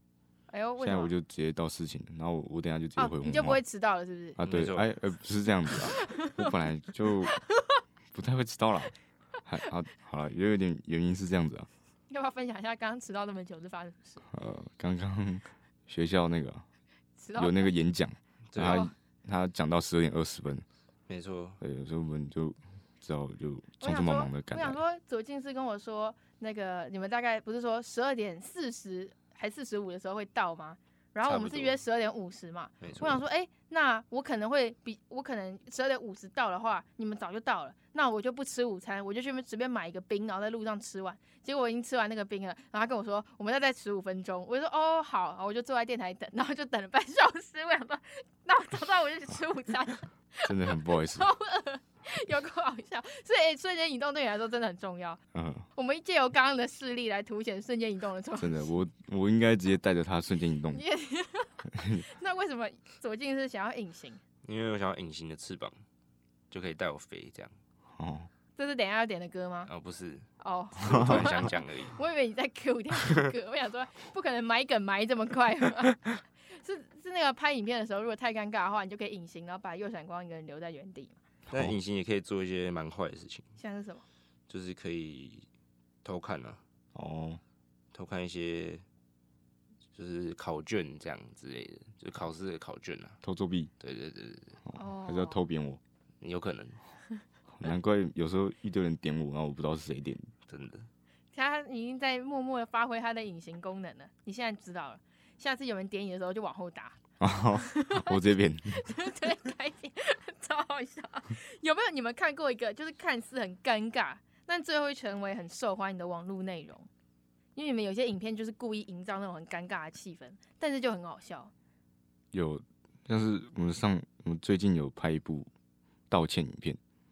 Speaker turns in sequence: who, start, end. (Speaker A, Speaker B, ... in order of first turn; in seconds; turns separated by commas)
Speaker A: 0.5-1.1, Speaker B: 0.8-3.6, Speaker A: 3.0-4.4, Speaker B: 4.4-7.4, Speaker C: 4.4-4.8, Speaker A: 6.1-6.4, Speaker A: 7.3-7.6, Speaker B: 8.1-8.9, Speaker B: 9.4-11.7, Speaker A: 12.1-14.2, Speaker B: 14.3-16.6, Speaker A: 17.2-17.7, Speaker B: 17.4-20.6, Speaker C: 18.5-18.8, Speaker A: 18.6-18.9, Speaker C: 21.1-21.6, Speaker B: 21.6-24.8, Speaker A: 23.8-55.2, Speaker C: 31.2-31.7, Speaker C: 32.8-33.2, Speaker B: 50.4-51.3, Speaker B: 55.3-55.6, Speaker A: 55.8-58.6, Speaker B: 58.4-60.8, Speaker A: 60.7-64.2, Speaker B: 61.7-62.0, Speaker C: 64.4-65.8, Speaker C: 66.5-67.5, Speaker B: 67.9-68.3, Speaker A: 68.6-69.7, Speaker C: 69.7-70.3, Speaker A: 70.4-81.2, Speaker C: 70.8-71.9, Speaker B: 70.9-71.2, Speaker B: 81.5-81.7, Speaker C: 81.5-83.5, Speaker A: 83.6-84.0, Speaker C: 84.5-85.5, Speaker C: 86.0-86.6, Speaker B: 86.9-87.4, Speaker C: 87.9-88.8, Speaker C: 89.9-93.2, Speaker B: 93.2-93.7, Speaker C: 93.8-94.6, Speaker B: 94.6-95.8, Speaker A: 94.7-95.4, Speaker C: 96.2-96.8, Speaker B: 97.5-100.3, Speaker C: 100.5-100.9, Speaker A: 101.3-107.0, Speaker B: 107.2-108.9, Speaker A: 107.6-116.9, Speaker A: 117.5-121.5, Speaker B: 122.3-125.5, Speaker B: 126.1-126.8